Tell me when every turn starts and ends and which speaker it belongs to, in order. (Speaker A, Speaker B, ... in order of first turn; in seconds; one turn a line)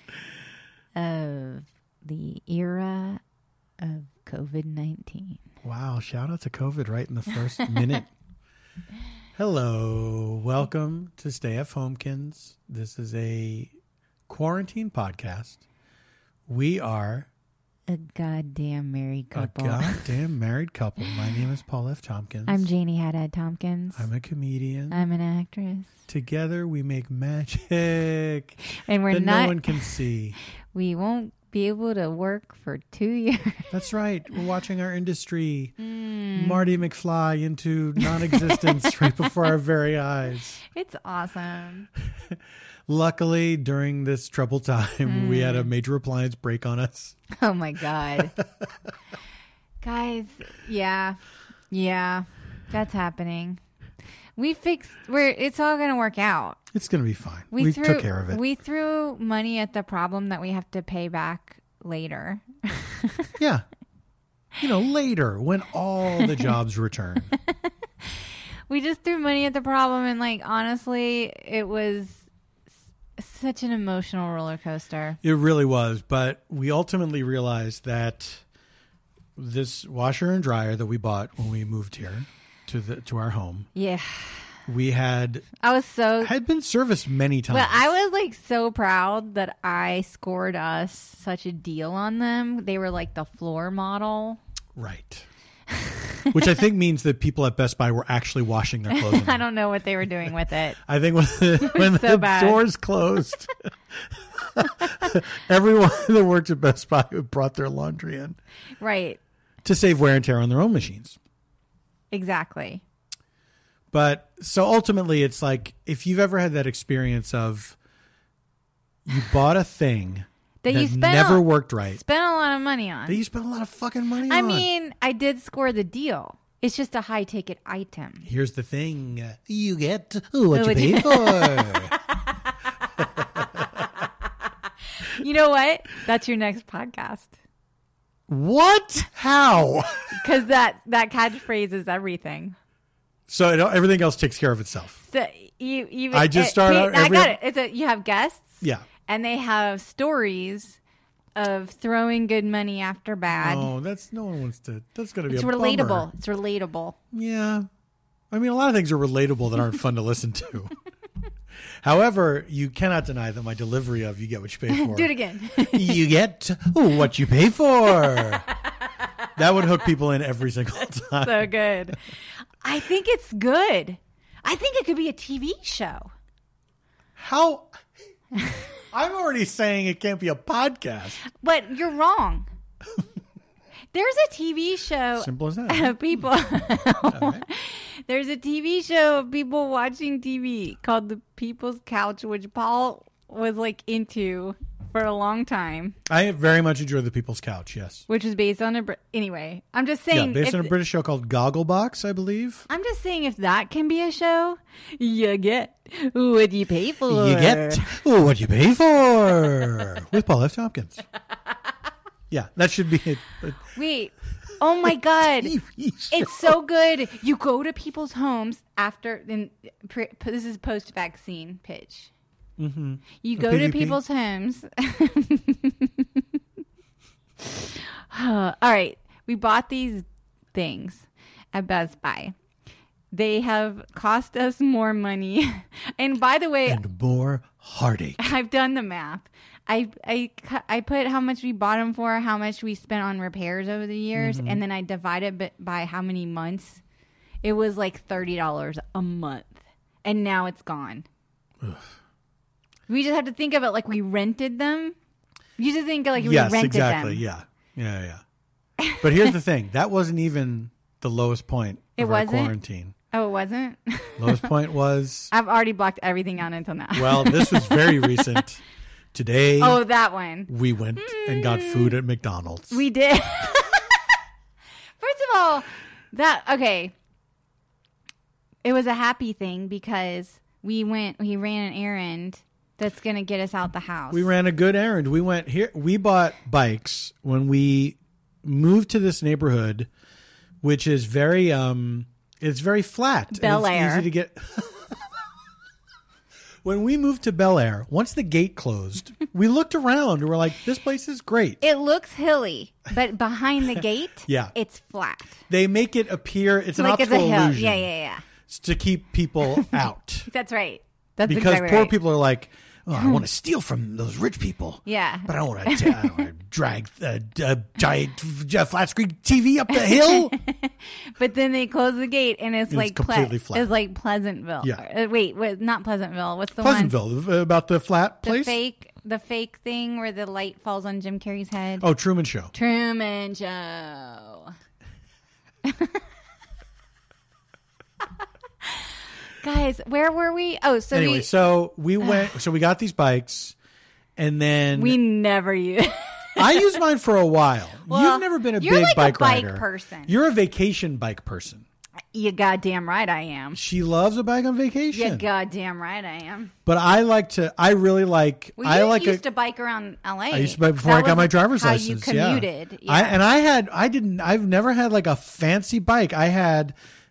Speaker A: 1.0-3.2
Speaker A: 3.8-5.4
Speaker B: 5.6-8.1
Speaker A: 7.6-7.9
Speaker B: 9.3-13.7
Speaker B: 14.3-15.6
Speaker B: 16.5-17.3
Speaker A: 17.9-20.1
Speaker B: 19.4-22.7
Speaker A: 22.5-24.1
Speaker B: 24.0-25.0
Speaker A: 24.9-25.9
Speaker B: 26.1-28.6
Speaker A: 28.7-30.0
Speaker B: 29.1-30.4
Speaker A: 30.7-33.7
Speaker B: 33.7-35.7
Speaker A: 35.8-36.7
Speaker B: 36.4-40.6
Speaker A: 38.0-39.4
Speaker A: 40.7-41.9
Speaker B: 42.9-47.1
Speaker A: 45.1-45.7
Speaker A: 47.3-48.4
Speaker B: 48.2-48.7
Speaker A: 49.8-51.2
Speaker A: 51.7-53.6
Speaker A: 54.4-56.6
Speaker B: 56.7-58.4
Speaker A: 57.5-63.3
Speaker B: 63.4-63.6
Speaker B: 64.6-67.3
Speaker A: 66.2-66.4
Speaker A: 67.5-72.3
Speaker A: 73.2-75.2
Speaker B: 75.2-78.4
Speaker B: 79.4-83.7
Speaker A: 83.8-84.7
Speaker B: 84.7-85.5
Speaker A: 85.6-86.3
Speaker B: 86.2-87.9
Speaker A: 87.5-94.4
Speaker B: 94.8-95.3
Speaker A: 95.7-96.3
Speaker B: 96.3-99.4
Speaker A: 98.9-100.8
Speaker B: 100.9-108.4
Speaker A: 101.6-102.6
Speaker A: 108.8-109.2
Speaker B: 109.6-111.2
Speaker A: 112.1-112.8
Speaker B: 113.9-117.8
Speaker B: 119.1-122.0
Speaker A: 120.6-123.2
Speaker B: 123.1-124.7
Speaker A: 124.3-128.3
Speaker B: 128.3-132.0
Speaker A: 130.5-132.9
Speaker B: 133.0-133.9
Speaker A: 135.0-137.3
Speaker B: 138.3-140.2
Speaker A: 140.1-142.6
Speaker B: 143.3-145.0
Speaker A: 145.1-150.8
Speaker B: 146.1-147.3
Speaker A: 151.4-153.7
Speaker B: 153.4-156.1
Speaker A: 155.3-157.0
Speaker B: 157.1-157.7
Speaker B: 158.3-160.7
Speaker B: 161.8-168.5
Speaker A: 164.7-166.0
Speaker A: 167.9-169.2
Speaker B: 169.4-171.5
Speaker A: 171.2-176.1
Speaker B: 177.2-177.7
Speaker B: 178.9-181.2
Speaker A: 181.2-182.5
Speaker A: 183.9-196.0
Speaker B: 185.2-186.0
Speaker B: 187.1-187.5
Speaker B: 196.1-198.0
Speaker A: 198.1-200.7
Speaker B: 200.1-202.7
Speaker A: 202.7-208.0
Speaker B: 207.1-211.0
Speaker B: 212.3-213.6
Speaker A: 213.7-215.6
Speaker B: 215.4-216.5
Speaker A: 216.1-222.1
Speaker B: 222.6-224.0
Speaker A: 223.2-226.2
Speaker A: 227.4-232.3
Speaker A: 233.1-236.8
Speaker B: 236.7-238.3
Speaker A: 238.2-246.8
Speaker B: 244.2-244.6
Speaker A: 247.4-251.1
Speaker B: 251.6-251.9
Speaker A: 252.9-254.9
Speaker A: 255.6-257.2
Speaker B: 256.2-258.2
Speaker B: 259.0-262.9
Speaker A: 262.0-262.6
Speaker A: 263.1-264.5
Speaker B: 264.2-265.3
Speaker A: 265.3-268.4
Speaker B: 266.9-268.6
Speaker B: 269.1-269.8
Speaker A: 269.6-272.0
Speaker B: 270.5-272.8
Speaker A: 272.7-274.2
Speaker A: 275.0-276.9
Speaker A: 278.6-284.3
Speaker B: 284.1-289.9
Speaker B: 290.6-295.0
Speaker A: 293.3-294.1
Speaker B: 296.6-301.6
Speaker A: 301.6-305.5
Speaker B: 304.3-304.5
Speaker B: 305.5-307.9
Speaker A: 306.8-308.2
Speaker B: 308.5-310.3
Speaker A: 310.3-311.9
Speaker B: 311.3-320.3
Speaker A: 313.0-313.2
Speaker A: 314.9-316.3
Speaker A: 319.7-326.9
Speaker B: 322.7-323.7
Speaker B: 326.6-328.6
Speaker A: 328.2-331.9
Speaker B: 331.8-332.5
Speaker A: 332.5-334.5
Speaker A: 335.6-336.0
Speaker A: 338.6-341.3
Speaker B: 340.9-343.6
Speaker A: 342.0-342.3
Speaker B: 344.2-345.0
Speaker A: 344.8-346.8
Speaker B: 346.4-351.6
Speaker A: 347.9-350.1
Speaker A: 352.1-353.6
Speaker B: 353.5-355.3
Speaker A: 354.9-356.5
Speaker B: 356.7-359.2
Speaker A: 358.6-363.2
Speaker B: 360.3-366.8